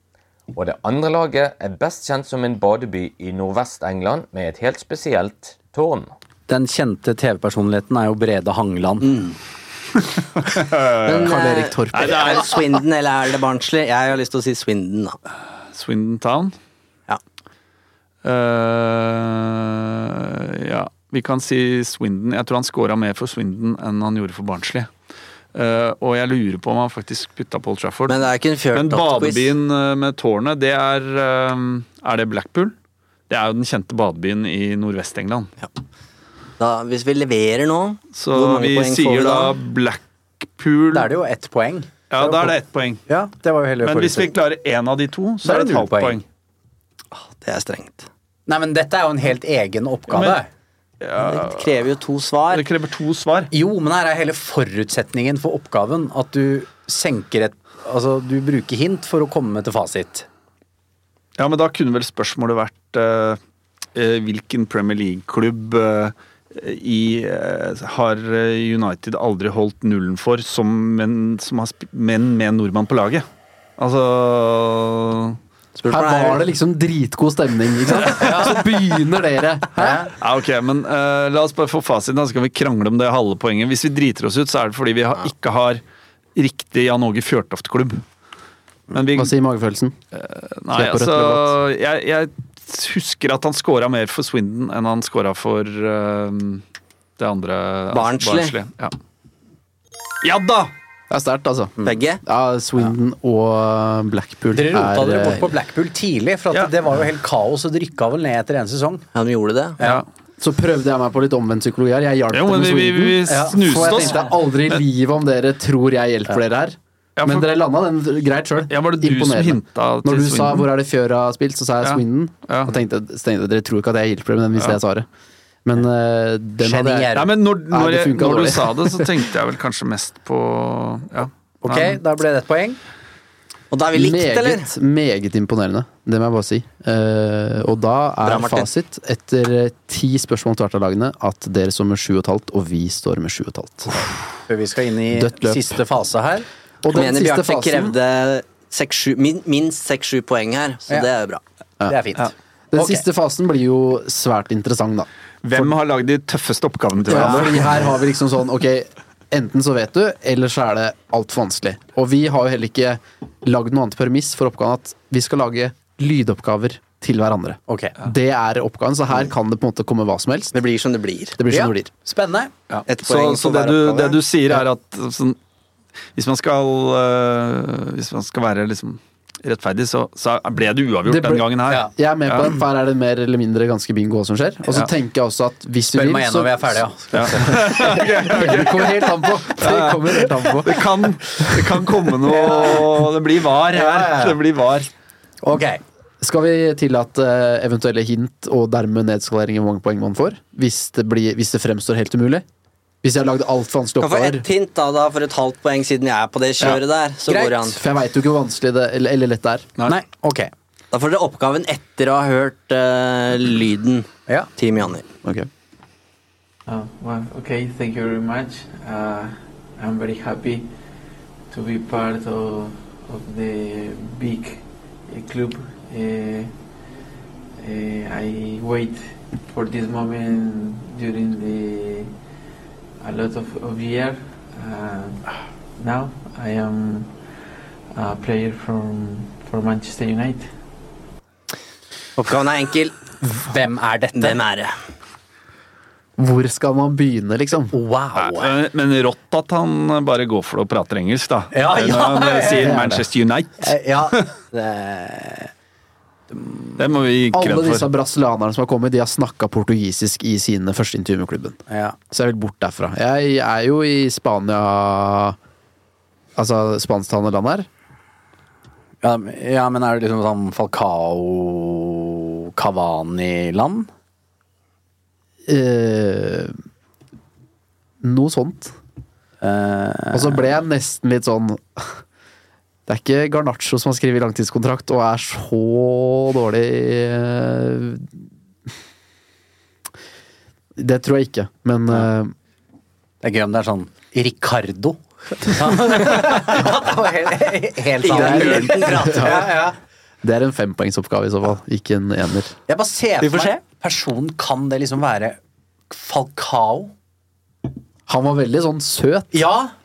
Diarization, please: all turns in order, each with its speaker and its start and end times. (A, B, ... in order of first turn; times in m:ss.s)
0:00.5-0:06.1 A
0:06.5-0:09.2 B
0:09.0-0:09.4 C
0:10.4-0:11.3 D
0:11.0-0:15.2 C
0:11.0-0:12.4 E
0:11.9-0:12.6 D
0:15.7-0:16.5 D
0:18.2-0:24.9 D
0:25.5-0:32.7 D
0:28.1-0:29.5 C
0:33.3-0:35.5 D
0:36.6-0:39.5 C
0:38.1-0:41.1 D
0:40.9-0:44.3 B
0:42.1-0:43.0 D
0:43.8-0:46.2 D
0:45.4-0:46.2 B
0:47.1-0:48.1 C
0:48.5-0:50.5 B
0:50.1-0:50.4 D
0:51.0-0:51.7 D
0:51.2-0:52.6 C
0:52.5-0:53.5 D
0:53.5-1:00.3 B
1:01.4-1:03.4 D
1:03.9-1:13.2 D
1:13.8-1:15.4 D
1:15.8-1:20.1 E
1:15.9-1:16.4 C
1:18.0-1:18.3 D
1:18.1-1:18.6 B
1:19.8-1:20.1 B
1:20.2-1:25.8 D
1:26.4-1:28.0 D
1:28.9-1:29.3 D
1:29.1-1:30.0 E
1:30.1-1:36.6 D
1:30.7-1:31.6 E
1:37.2-1:38.9 D
1:37.9-1:38.5 C
1:40.2-1:40.7 D
1:41.1-1:45.5 E
1:41.8-1:42.2 C
1:44.5-1:49.0 B
1:49.1-1:49.8 C
1:49.8-1:50.0 D
1:50.4-2:05.0 E
1:52.3-1:54.2 D
1:53.2-1:54.3 B
1:57.2-1:57.5 D
1:58.7-2:00.7 D
2:01.8-2:02.8 D
2:05.6-2:09.0 E
2:06.6-2:07.3 B
2:07.1-2:12.0 D
2:11.6-2:12.8 B
2:13.7-2:14.7 C
2:13.9-2:24.1 E
2:18.2-2:18.7 C
2:24.5-2:26.4 B
2:25.1-2:25.8 E
2:26.8-2:28.0 E
2:26.9-2:31.4 C
2:31.9-2:33.0 B
2:32.7-2:35.7 E
2:35.4-2:37.7 D
2:37.1-2:50.5 E
2:37.1-2:37.9 B
2:47.7-2:47.9 B
2:50.5-2:51.4 C
2:51.4-2:51.9 E
2:51.5-2:52.5 B
2:52.8-2:55.4 D
2:52.9-2:54.2 C
2:56.2-3:02.6 D
3:01.0-3:06.9 E
3:05.9-3:08.6 B
3:07.1-3:14.9 D
3:07.4-3:10.8 E
3:11.4-3:11.7 E
3:12.2-3:13.1 B
3:13.7-3:14.4 B
3:15.4-3:15.8 B
3:16.2-3:22.4 E
3:23.0-3:24.4 E
3:24.0-3:27.8 C
3:26.6-3:27.6 B
3:27.6-3:29.7 E
3:29.9-3:30.5 B
3:30.9-3:35.0 C
3:36.7-3:40.7 F
3:41.5-3:46.5 F
3:47.6-3:52.1 F
3:53.0-3:55.2 F
3:55.8-3:57.2 F
3:57.9-4:00.5 F
4:02.2-4:03.0 C
4:03.2-4:04.4 B
4:04.2-4:04.7 C
4:06.2-4:07.7 E
4:07.7-4:08.5 B
4:08.2-4:14.3 D
4:11.5-4:13.0 B
4:12.5-4:13.0 E
4:13.6-4:15.5 B
4:16.3-4:16.7 B
4:16.8-4:17.9 D
4:17.3-4:21.6 E
4:21.7-4:22.0 B
4:22.1-4:25.4 E
4:26.4-4:27.7 E
4:29.0-4:33.9 B
4:35.4-4:36.5 E
4:38.0-4:38.8 E
4:39.4-4:40.4 B
4:40.1-4:42.0 E
4:42.9-4:48.2 E
4:50.8-4:52.3 E
4:53.2-4:59.8 B
4:58.0-4:59.5 C
4:58.1-4:59.5 E
5:00.2-5:02.6 E
5:02.7-5:06.9 B
5:03.2-5:03.6 C
5:08.1-5:09.4 E
5:09.3-5:09.7 B